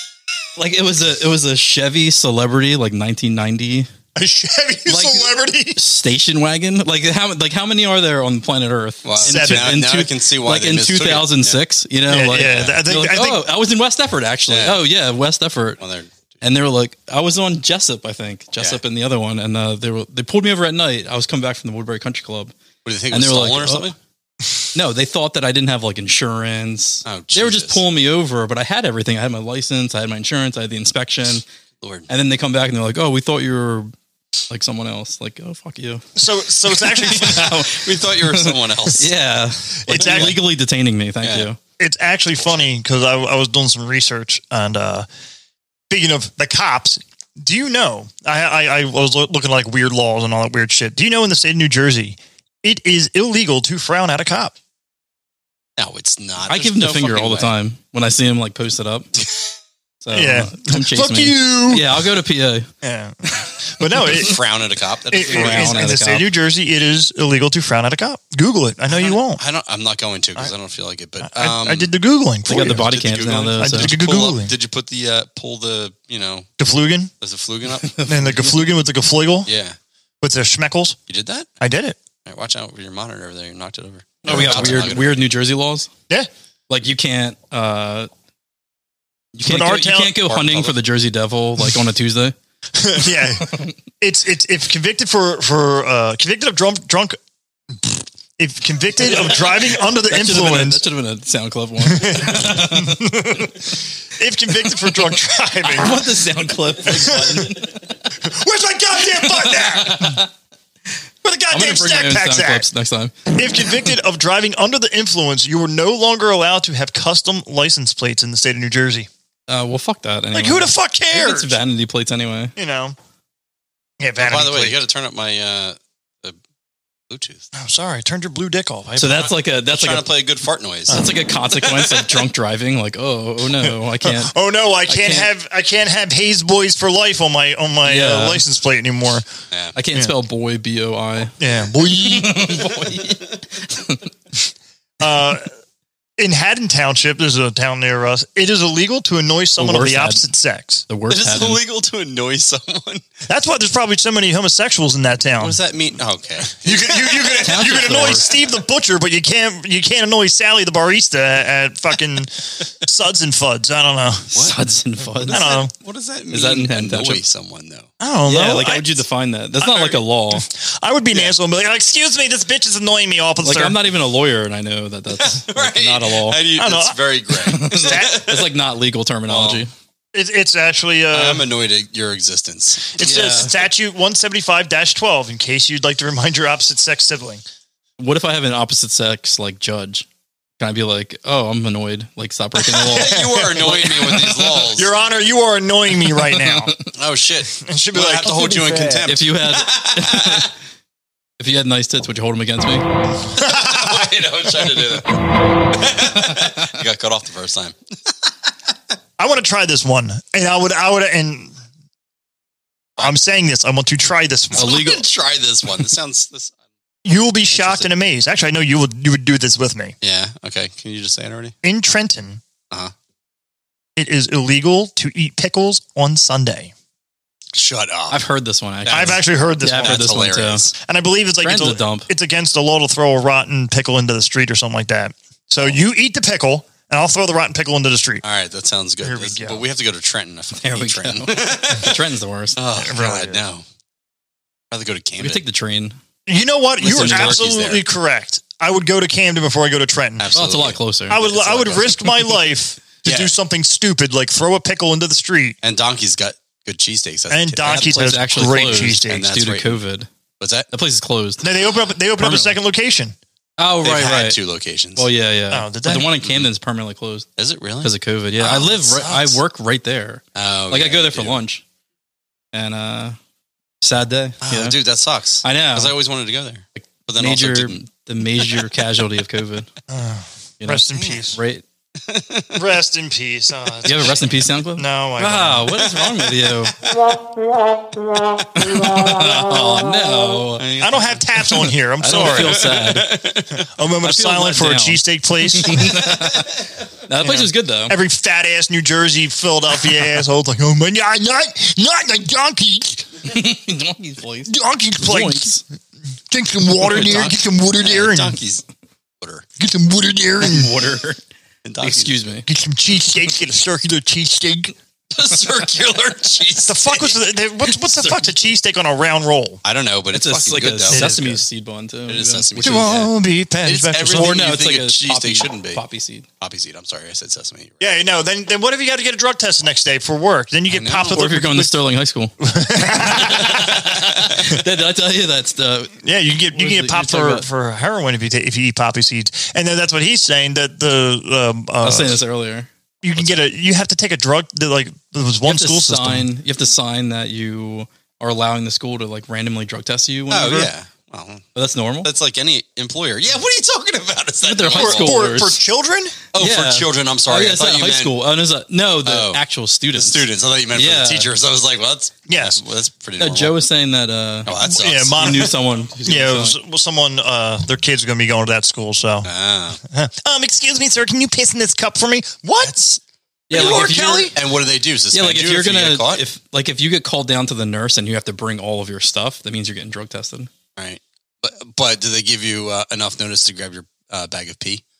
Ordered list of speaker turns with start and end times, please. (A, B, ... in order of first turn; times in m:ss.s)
0:00.6-0:03.9 A
0:04.2-0:05.8 B
0:04.9-0:15.8 A
0:09.0-0:11.6 C
0:09.2-0:09.8 B
0:12.1-0:13.5 B
0:14.5-0:14.8 C
0:15.8-0:16.1 C
0:16.4-0:22.5 A
0:22.8-0:24.0 C
0:23.1-0:23.8 A
0:24.7-0:31.4 A
0:27.0-0:27.8 C
0:31.8-0:32.1 C
0:32.1-0:33.9 A
0:34.5-0:36.0 A
0:36.2-0:37.6 B
0:36.8-0:41.6 A
0:37.3-0:39.1 C
0:39.8-0:40.4 B
0:39.9-0:40.4 C
0:41.2-0:41.5 C
0:41.8-0:45.0 B
0:45.9-0:54.5 B
0:55.8-0:57.5 C
0:56.5-0:59.1 A
1:00.0-1:02.7 A
1:00.1-1:02.0 B
1:02.8-1:04.4 B
1:04.0-1:05.9 C
1:05.1-1:09.4 B
1:05.3-1:06.3 A
1:08.9-1:11.9 C
1:11.2-1:12.9 B
1:12.4-1:13.9 A
1:12.5-1:16.5 C
1:13.6-1:14.5 B
1:16.6-1:17.1 B
1:17.2-1:18.0 C
1:17.8-1:18.6 A
1:18.1-1:19.5 B
1:19.4-1:19.8 C
1:20.2-1:21.0 B
1:21.1-1:21.5 C
1:21.6-1:22.0 B
1:22.2-1:25.2 C
1:24.2-1:25.9 A
1:24.2-1:25.0 B
1:26.7-1:28.1 A
1:29.3-1:32.3 A
1:29.4-1:30.2 B
1:30.2-1:30.8 C
1:32.7-1:37.2 B
1:37.7-1:40.8 B
1:39.8-1:43.0 A
1:41.8-1:46.0 B
1:45.6-1:48.0 A
1:46.8-1:47.6 B
1:48.1-1:50.2 B
1:49.4-1:50.3 A
1:51.2-1:52.7 B
1:51.5-1:53.3 A
1:53.3-1:59.1 B
1:59.5-2:02.5 A
2:00.3-2:01.6 B
2:02.6-2:03.0 B
2:04.0-2:04.8 B
2:04.2-2:06.4 C
2:07.1-2:07.5 C
2:07.5-2:09.3 B
2:09.0-2:10.1 A
2:09.7-2:12.2 C
2:10.9-2:14.3 A
2:13.6-2:19.3 B
2:14.8-2:15.3 A
2:17.8-2:18.4 A
2:19.5-2:19.8 C
2:19.8-2:21.4 A
2:21.4-2:22.6 B
2:21.9-2:24.1 A
2:25.0-2:25.5 B
2:26.2-2:30.8 B
2:29.6-2:30.3 A
2:30.9-2:31.6 A
2:31.1-2:33.0 C
2:33.3-2:35.6 B
2:35.4-2:38.3 C
2:36.6-2:44.3 B
2:37.4-2:38.3 A
2:44.4-2:45.4 A
2:45.1-2:47.9 C
2:45.3-2:45.7 B
2:46.3-2:47.2 A
2:48.0-2:49.0 B
2:48.2-2:50.5 A
2:49.6-2:53.8 B
2:53.4-2:56.4 A
2:55.2-2:58.5 C
2:56.5-2:57.0 B
2:57.4-2:59.7 A
2:57.6-2:58.2 B
2:59.3-2:59.6 C
3:00.1-3:01.5 B
3:01.1-3:03.5 C
3:02.9-3:07.4 B
3:03.0-3:03.4 A
3:08.0-3:10.0 A
3:10.6-3:13.2 A
3:12.7-3:16.7 B
3:12.8-3:14.9 C
3:16.4-3:16.8 A
3:16.9-3:20.5 C
3:17.6-3:19.0 B
3:19.0-3:20.5 A
3:21.4-3:22.8 A
3:23.3-3:24.1 B
3:23.4-3:27.8 C
3:29.2-3:31.6 B
3:33.0-3:34.8 B
3:34.5-3:36.5 C
3:34.6-3:35.0 A
3:37.0-3:39.9 B
3:37.5-3:37.9 C
3:40.0-3:41.5 C
3:41.6-3:42.4 B
3:44.0-3:46.7 B
3:47.5-3:48.2 C
3:48.1-3:50.6 A
3:48.8-3:50.7 C
3:48.9-3:50.1 B
3:50.8-3:58.2 B
3:51.4-3:52.1 A
3:58.2-4:02.0 C
3:59.0-3:59.6 B
4:00.6-4:02.6 A
4:02.6-4:03.6 C
4:02.7-4:03.4 B
4:04.7-4:05.4 C
4:05.2-4:06.0 A
4:06.3-4:10.3 B
4:06.8-4:07.8 C
4:06.8-4:07.4 A
4:10.2-4:11.9 C
4:10.3-4:12.1 A
4:11.1-4:15.6 B
4:13.0-4:13.3 C
4:15.6-4:17.9 C
4:17.3-4:19.2 B
4:17.6-4:20.1 A
4:18.6-4:19.8 C
4:20.4-4:20.7 C
4:20.7-4:21.5 A
4:21.4-4:23.2 B
4:22.2-4:22.6 A
4:23.6-4:24.4 A
4:23.8-4:25.1 C
4:25.0-4:27.2 A
4:25.5-4:26.1 B
4:27.4-4:29.2 C
4:27.8-4:31.6 A
4:29.1-4:29.3 B
4:30.3-4:31.4 C
4:32.5-4:33.2 A
4:33.8-4:34.8 A
4:34.4-4:37.8 C
4:35.4-4:35.9 A
4:36.8-4:39.7 A
4:39.9-4:41.4 B
4:40.6-4:41.6 A
4:42.0-4:42.6 C
4:42.5-4:45.8 B
4:43.8-4:46.8 A
4:48.5-4:50.6 A
4:50.6-4:53.6 C
4:50.8-4:52.6 B
4:52.0-4:53.1 A
4:53.5-4:56.0 B
4:54.0-4:56.5 A
4:57.1-4:58.0 A
4:57.2-5:03.1 B
5:03.3-5:05.6 A
5:04.4-5:05.6 B
5:06.3-5:08.4 B
5:06.8-5:08.6 C
5:09.2-5:09.4 C
5:09.6-5:10.7 B
5:10.4-5:11.2 A
5:11.6-5:12.4 C
5:11.8-5:12.5 A
5:12.5-5:14.7 B
5:15.1-5:17.2 C
5:16.6-5:19.6 B
5:18.0-5:18.2 A
5:19.6-5:21.4 C
5:20.1-5:22.9 A
5:20.9-5:21.3 B
5:22.1-5:25.8 C
5:22.6-5:24.5 B
5:24.1-5:26.2 A
5:26.4-5:27.8 C
5:27.8-5:31.7 B
5:30.7-5:31.2 C
5:31.1-5:32.3 A
5:32.4-5:33.8 B
5:32.8-5:36.0 A
5:36.0-5:42.2 B
5:36.5-5:37.4 A
5:41.8-5:42.7 A
5:43.0-5:46.3 B
5:45.4-5:50.7 A
5:50.3-5:51.5 C
5:51.5-5:52.1 A
5:52.0-5:55.2 C
5:54.4-5:55.6 A
5:54.7-5:56.2 B
5:56.3-5:58.2 C
5:56.3-6:01.3 A
5:59.0-5:59.4 C
5:59.9-6:03.6 C
6:02.3-6:02.6 B
6:03.2-6:04.5 A
6:04.5-6:05.5 C
6:04.6-6:09.3 B
6:05.2-6:06.6 A
6:09.2-6:09.8 C
6:09.8-6:12.8 B
6:12.6-6:13.0 C
6:13.5-6:14.3 A
6:13.5-6:14.3 B
6:13.5-6:16.2 C
6:15.1-6:20.5 A
6:20.8-6:24.8 C